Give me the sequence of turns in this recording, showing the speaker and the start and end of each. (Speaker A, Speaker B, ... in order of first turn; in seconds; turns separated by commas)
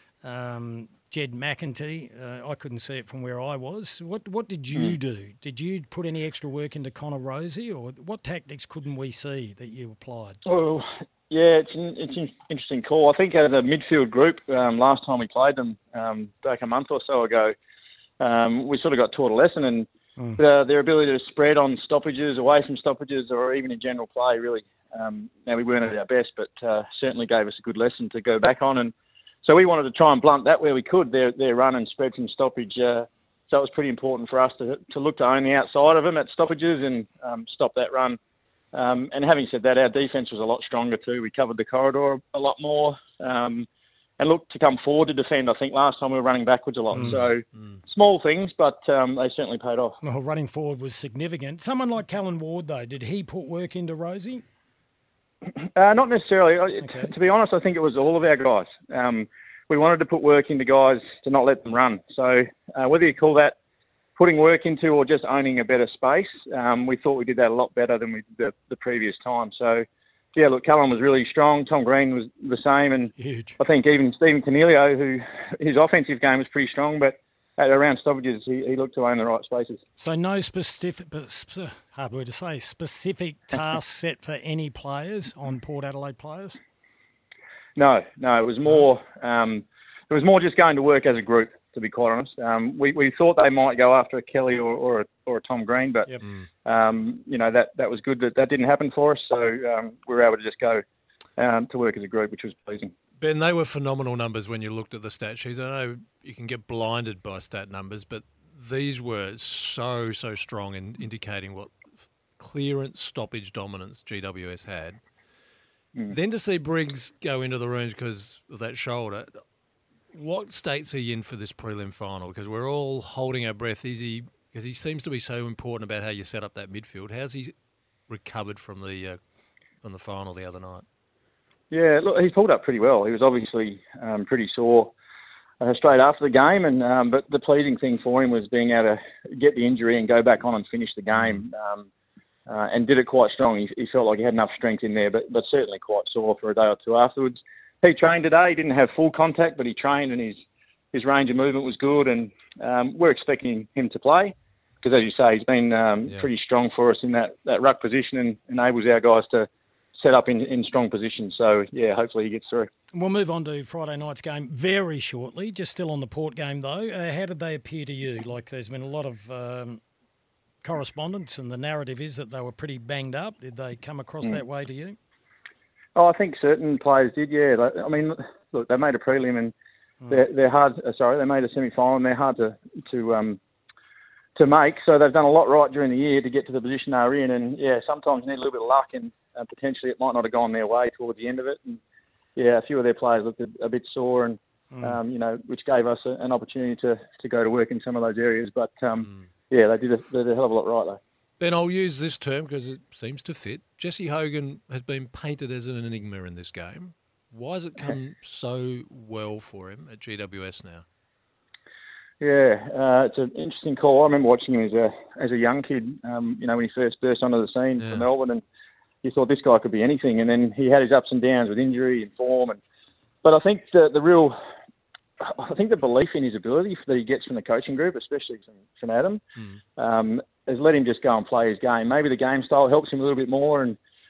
Speaker A: 0.2-10.4, Speaker B: 10.4-17.5, Speaker B: 18.2-38.2, Speaker B: 38.7-43.7, Speaker B: 44.2-50.0, Speaker C: 46.9-47.8, Speaker A: 46.9-47.2, Speaker A: 50.0-54.4, Speaker B: 55.5-63.5, Speaker A: 56.8-57.1, Speaker B: 64.2-79.8, Speaker A: 73.2-73.6, Speaker A: 80.0-86.6, Speaker B: 87.8-96.1, Speaker B: 96.6-100.8, Speaker B: 101.4-102.9, Speaker C: 103.2-111.8, Speaker C: 112.4-115.0, Speaker C: 116.1-119.3, Speaker C: 120.1-127.5, Speaker C: 128.1-129.2, Speaker C: 129.8-130.8, Speaker B: 131.7-134.9, Speaker B: 135.6-141.9, Speaker B: 142.5-150.4, Speaker B: 150.9-162.7, Speaker A: 162.9-169.8, Speaker A: 170.6-175.0, Speaker B: 175.9-179.5, Speaker B: 180.1-183.4, Speaker B: 184.3-191.8, Speaker B: 192.3-201.0, Speaker A: 194.7-195.0, Speaker C: 201.4-210.8, Speaker B: 212.2-218.4, Speaker C: 217.8-218.1, Speaker B: 219.0-222.6, Speaker B: 223.2-224.3, Speaker B: 225.2-229.2, Speaker B: 229.8-233.8